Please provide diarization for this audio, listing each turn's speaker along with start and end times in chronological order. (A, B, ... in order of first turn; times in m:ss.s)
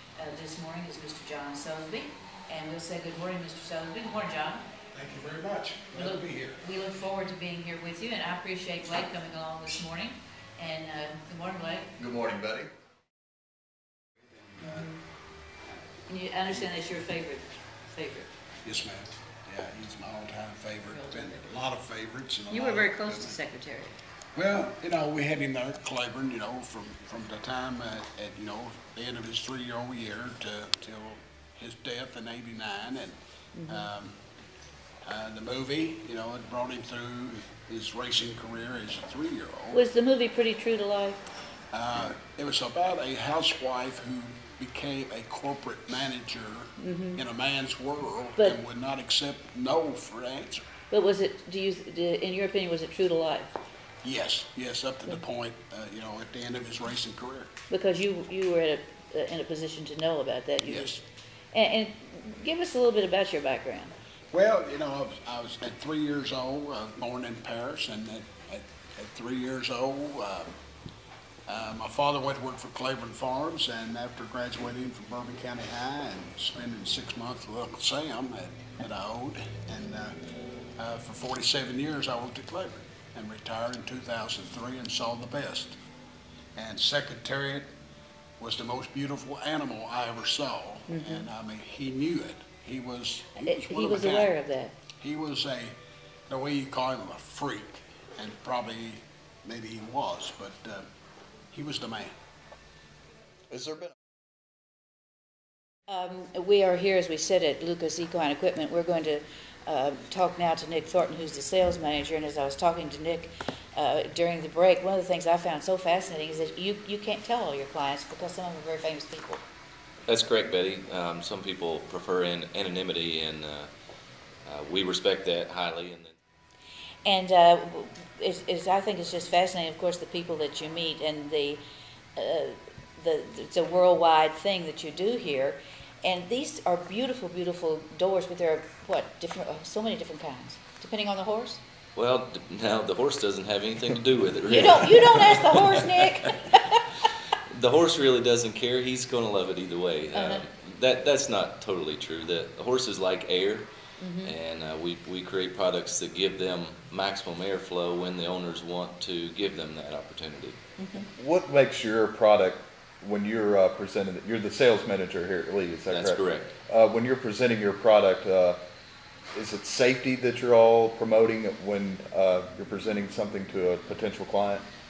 0:00.2-0:04.6 A
0:04.9-0:06.6 B
0:06.0-0:11.9 A
0:12.0-0:12.7 C
0:14.2-0:14.9 B
0:14.6-0:15.0 A
0:16.1-0:18.3 A
0:18.6-0:23.4 B
0:20.9-0:21.5 A
0:22.5-0:24.0 A
0:24.4-0:33.2 B
0:33.6-0:33.9 A
0:33.7-0:34.2 B
0:35.0-0:39.8 B
0:39.7-0:41.2 A
0:41.7-0:50.6 B
0:46.8-0:47.2 A
0:50.9-0:53.6 A
0:54.0-0:57.5 B
0:57.7-1:00.9 A
1:00.6-1:01.0 B
1:01.5-1:03.9 A
1:04.3-1:10.5 B
1:11.5-1:20.2 B
1:20.8-1:25.8 B
1:26.6-1:27.7 B
1:28.4-1:34.3 B
1:30.9-1:31.3 A
1:33.4-1:34.7 A
1:35.0-1:35.7 B
1:36.3-1:40.9 B
1:41.5-1:42.1 B
1:43.5-1:43.9 C
1:45.9-1:59.4 A
2:00.1-2:03.7 D
2:04.5-2:06.2 D
2:07.0-2:11.6 A
2:12.2-2:21.6 A
2:22.0-2:26.2 D
2:24.5-2:26.8 A
2:27.5-2:33.7 D
2:30.1-2:30.4 A
2:34.0-2:34.4 A
2:34.2-2:40.6 D
2:40.8-2:41.1 A
2:41.2-2:48.6 C
2:45.9-2:46.5 D
2:49.3-2:54.6 C